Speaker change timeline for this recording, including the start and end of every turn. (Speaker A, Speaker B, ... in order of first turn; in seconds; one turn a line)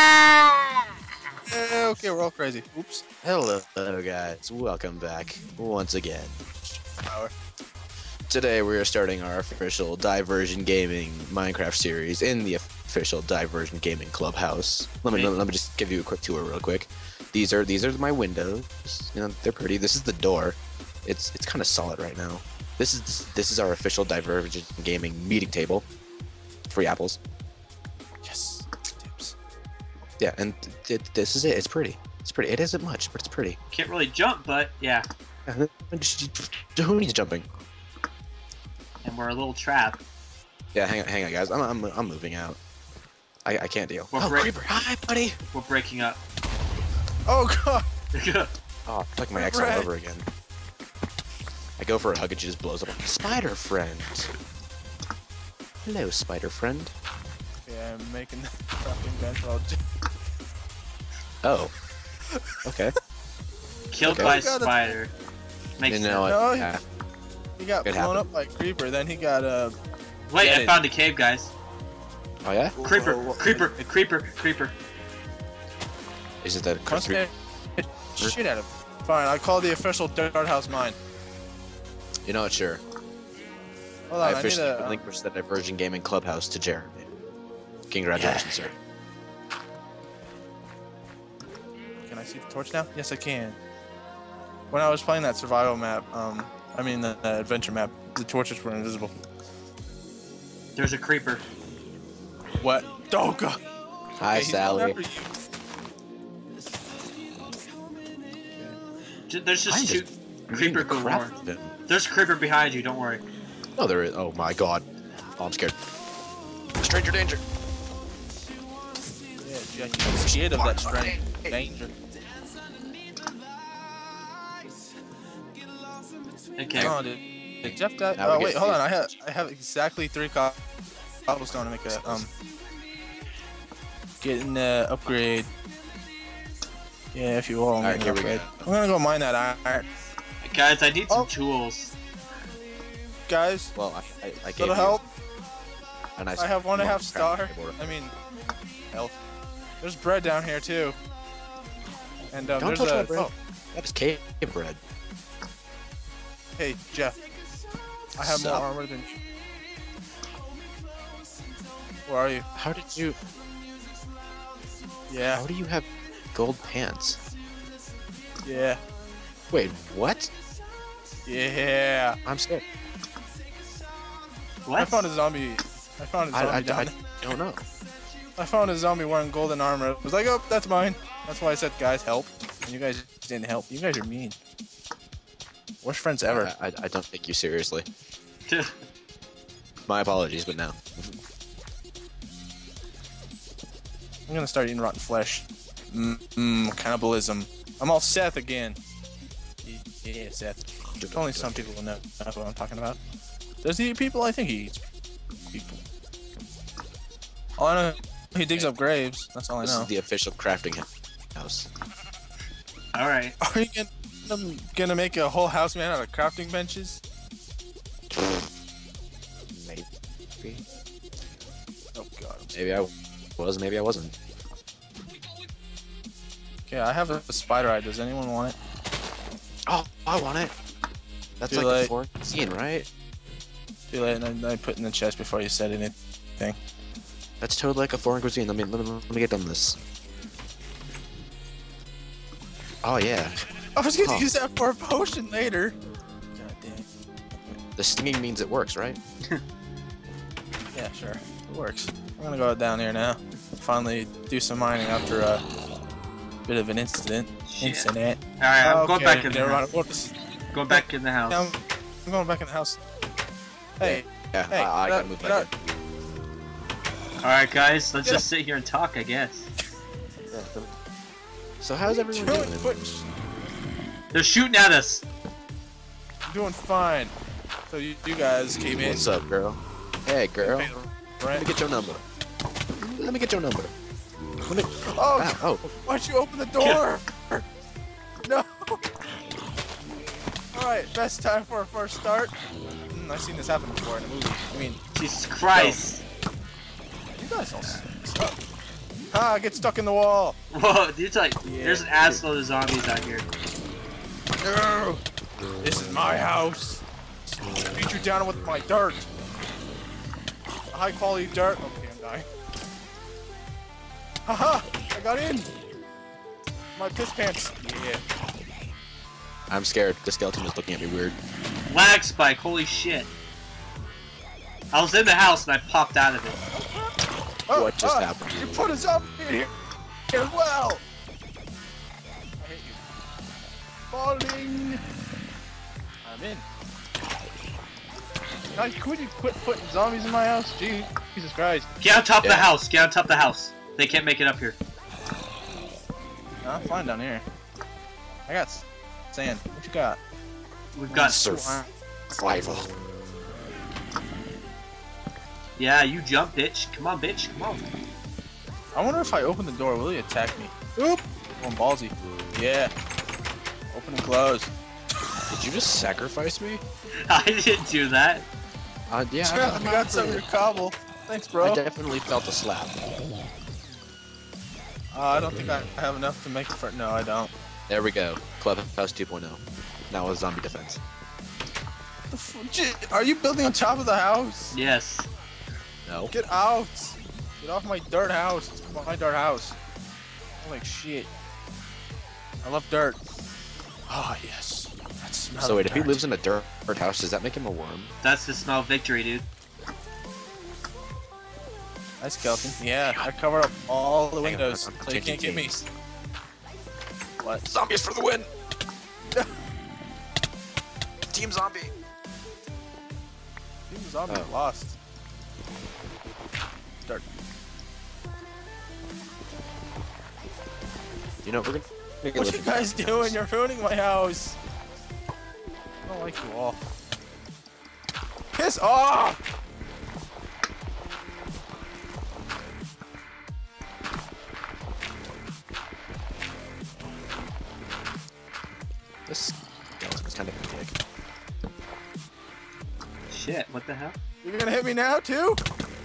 Speaker A: 1.5-3.0
Speaker B: 3.2-6.4
Speaker A: 7.0-7.3
Speaker B: 8.3-25.9
Speaker B: 26.7-27.2
Speaker A: 28.2-29.4
Speaker B: 30.2-33.6
Speaker C: 33.7-35.1
Speaker B: 35.5-37.5
Speaker C: 39.0-40.0
Speaker B: 40.7-42.6
Speaker B: 43.5-45.4
Speaker C: 44.1-44.5
Speaker C: 45.5-46.2
Speaker A: 47.3-47.9
Speaker C: 48.1-48.5
Speaker B: 48.9-50.3
Speaker A: 49.3-49.9
Speaker B: 51.8-54.3
Speaker B: 55.8-56.9
Speaker A: 57.7-59.8
Speaker B: 61.4-61.7
Speaker B: 62.6-62.9
Speaker C: 63.9-65.1
Speaker B: 64.0-64.4
Speaker A: 64.2-64.8
Speaker C: 65.8-66.3
Speaker B: 65.9-66.8
Speaker A: 66.3-66.7
Speaker A: 67.6-69.8
Speaker B: 67.8-68.2
Speaker C: 70.3-71.5
Speaker A: 70.4-70.8
Speaker B: 72.4-72.8
Speaker A: 72.8-73.7
Speaker C: 72.8-74.8
Speaker B: 76.4-77.2
Speaker A: 76.9-81.0
Speaker B: 82.2-82.8
Speaker A: 84.1-85.1
Speaker B: 84.2-87.1
Speaker B: 87.9-88.7
Speaker A: 88.2-88.7
Speaker A: 92.0-93.6
Speaker A: 94.7-99.1
Speaker C: 100.8-101.5
Speaker A: 102.6-103.6
Speaker A: 104.2-105.3
Speaker B: 104.2-105.0
Speaker C: 109.3-111.3
Speaker B: 109.7-111.7
Speaker C: 111.9-113.2
Speaker B: 113.8-114.9
Speaker B: 115.4-115.8
Speaker B: 116.8-117.4
Speaker A: 119.4-121.9
Speaker B: 120.1-121.6
Speaker C: 126.6-127.0
Speaker A: 126.8-130.6
Speaker B: 127.6-129.0
Speaker A: 131.3-132.3
Speaker B: 131.9-132.2
Speaker A: 134.2-135.5
Speaker A: 137.1-139.9
Speaker B: 137.8-138.7
Speaker C: 140.4-142.0
Speaker A: 143.3-143.7
Speaker B: 143.8-145.0
Speaker A: 144.6-145.1
Speaker B: 146.2-147.8
Speaker A: 146.4-148.1
Speaker A: 148.9-149.2
Speaker A: 149.8-151.0
Speaker A: 152.3-153.3
Speaker B: 152.6-154.8
Speaker A: 156.6-157.2
Speaker B: 158.2-158.7
Speaker A: 158.2-159.2
Speaker A: 162.1-162.5
Speaker B: 162.6-163.2
Speaker A: 165.1-165.4
Speaker B: 165.3-167.2
Speaker A: 168.4-168.8
Speaker B: 169.5-170.3
Speaker A: 171.3-172.2
Speaker B: 172.2-172.6
Speaker C: 174.7-175.1
Speaker A: 174.8-177.0
Speaker B: 176.3-177.6
Speaker A: 178.4-184.4
Speaker A: 185.8-186.5
Speaker B: 186.3-187.9
Speaker C: 188.5-188.8
Speaker B: 189.9-191.2
Speaker A: 194.3-198.8
Speaker A: 199.6-200.6
Speaker B: 200.9-201.7
Speaker A: 201.1-203.0
Speaker A: 203.6-204.8
Speaker A: 205.5-205.8
Speaker A: 207.6-209.9
Speaker B: 209.6-211.7
Speaker C: 212.9-213.4
Speaker A: 213.4-217.0
Speaker B: 218.1-218.4
Speaker B: 219.5-219.9
Speaker A: 222.0-222.6
Speaker B: 222.5-224.1
Speaker A: 226.7-228.6
Speaker B: 229.7-230.5
Speaker B: 231.4-232.9
Speaker A: 231.5-231.9
Speaker A: 233.9-236.6
Speaker B: 237.4-239.8
Speaker B: 242.8-243.4
Speaker A: 243.8-245.8
Speaker B: 244.0-244.3
Speaker A: 246.4-246.9
Speaker B: 247.8-249.0
Speaker A: 250.7-255.4
Speaker A: 256.5-260.1
Speaker C: 257.5-259.6
Speaker C: 260.5-261.5
Speaker A: 260.7-262.8
Speaker A: 263.8-265.5
Speaker B: 263.8-265.5
Speaker C: 267.2-269.5
Speaker B: 270.3-270.7
Speaker B: 271.6-272.6
Speaker A: 272.1-273.1
Speaker C: 274.1-275.0
Speaker A: 276.3-277.1
Speaker A: 277.7-279.1
Speaker B: 278.8-280.7
Speaker A: 280.4-281.5
Speaker B: 281.3-282.0
Speaker B: 282.8-283.7
Speaker B: 284.4-285.7
Speaker A: 284.8-287.1
Speaker A: 288.2-288.8
Speaker A: 290.5-292.4
Speaker A: 292.9-294.8
Speaker C: 294.9-296.0
Speaker A: 297.2-298.4
Speaker A: 299.1-300.4
Speaker C: 300.5-303.3
Speaker A: 301.4-301.9
Speaker A: 304.4-305.0
Speaker A: 305.6-306.8
Speaker A: 307.6-309.1
Speaker A: 310.7-312.3
Speaker A: 314.3-315.5
Speaker A: 316.8-318.0
Speaker B: 319.5-321.2
Speaker C: 321.7-323.1
Speaker C: 324.7-326.4
Speaker A: 326.5-326.9
Speaker A: 327.5-329.5
Speaker B: 327.5-328.4
Speaker A: 330.1-330.8
Speaker A: 332.4-332.8
Speaker A: 333.9-334.8
Speaker A: 336.1-336.4
Speaker A: 338.6-341.7
Speaker C: 341.8-344.6
Speaker B: 342.2-342.5
Speaker A: 346.4-347.2
Speaker A: 348.3-350.0
Speaker C: 350.8-351.2
Speaker A: 350.9-351.7
Speaker B: 351.0-351.6
Speaker B: 352.1-352.7
Speaker C: 355.6-357.6
Speaker A: 358.8-362.7
Speaker A: 363.7-364.5
Speaker B: 365.3-366.6
Speaker C: 367.1-368.3
Speaker B: 368.9-370.2
Speaker A: 369.2-371.6
Speaker B: 371.4-372.8
Speaker A: 374.9-377.3
Speaker B: 377.7-380.8
Speaker A: 382.1-384.6
Speaker C: 384.5-385.1
Speaker B: 385.9-386.1
Speaker A: 386.1-389.6
Speaker A: 390.4-391.1
Speaker A: 392.4-393.0
Speaker A: 393.9-396.0
Speaker B: 395.4-397.9
Speaker C: 398.0-399.2
Speaker A: 402.0-405.5
Speaker B: 404.2-405.7
Speaker A: 407.2-407.5
Speaker B: 407.5-408.3
Speaker B: 411.1-411.8
Speaker A: 413.7-414.8
Speaker B: 421.2-423.2
Speaker A: 422.1-424.4
Speaker A: 425.9-426.6
Speaker A: 428.4-429.2
Speaker B: 439.1-440.8
Speaker C: 443.1-444.0
Speaker A: 444.2-445.4